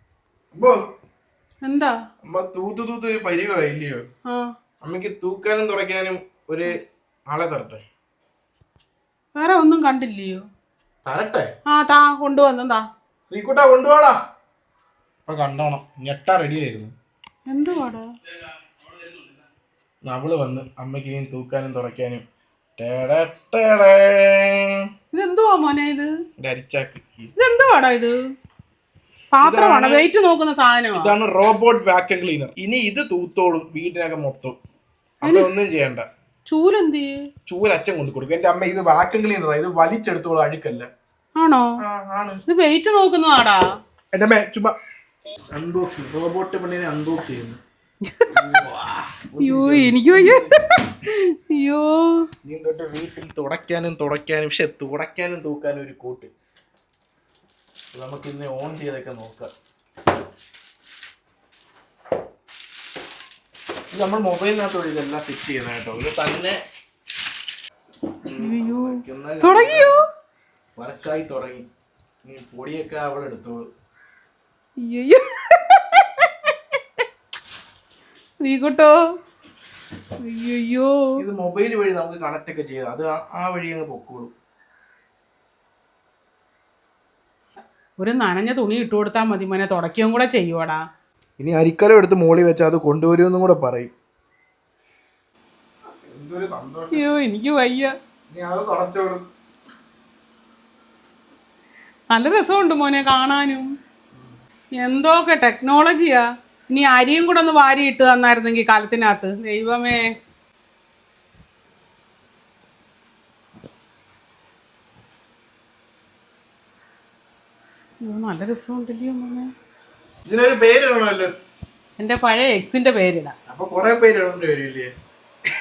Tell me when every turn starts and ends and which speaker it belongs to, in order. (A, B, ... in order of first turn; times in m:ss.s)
0:00.5-0:00.8 A
0:01.6-0:01.9 B
0:02.3-0:04.0 A
0:04.2-0:04.5 B
0:04.8-0:06.7 A
0:07.3-0:07.8 A
0:09.3-0:10.4 B
0:11.0-0:11.5 A
0:11.6-0:12.8 B
0:13.3-0:14.2 A
0:15.2-0:16.9 A
0:17.5-0:18.0 B
0:20.0-0:22.2 A
0:22.8-0:24.8 A
0:25.1-0:26.1 B
0:26.4-0:27.3 A
0:27.4-0:28.1 B
0:29.3-0:31.1 B
0:29.4-0:30.0 A
0:30.9-0:34.6 A
0:35.2-0:36.0 A
0:35.2-0:35.5 B
0:36.4-0:37.2 B
0:37.4-0:40.9 A
0:41.4-0:41.7 B
0:41.8-0:42.4 A
0:42.5-0:43.6 B
0:44.1-0:44.7 A
0:45.5-0:47.6 A
0:48.1-0:48.4 B
0:48.3-0:50.6 A
0:49.4-0:52.3 B
0:52.4-0:56.3 A
0:57.9-0:59.5 A
1:03.9-1:06.6 A
1:08.2-1:10.0 A
1:08.4-1:10.0 B
1:10.8-1:11.6 A
1:12.2-1:13.7 A
1:14.8-1:16.5 B
1:18.4-1:19.0 B
1:20.2-1:21.1 B
1:21.2-1:24.3 A
1:28.0-1:30.8 B
1:31.4-1:33.9 A
1:36.0-1:37.0 A
1:36.9-1:37.9 B
1:38.3-1:39.2 A
1:42.1-1:43.7 B
1:44.8-1:50.0 B
1:58.0-1:59.5 B
2:00.2-2:01.3 A
2:02.0-2:03.3 B
2:03.5-2:04.9 A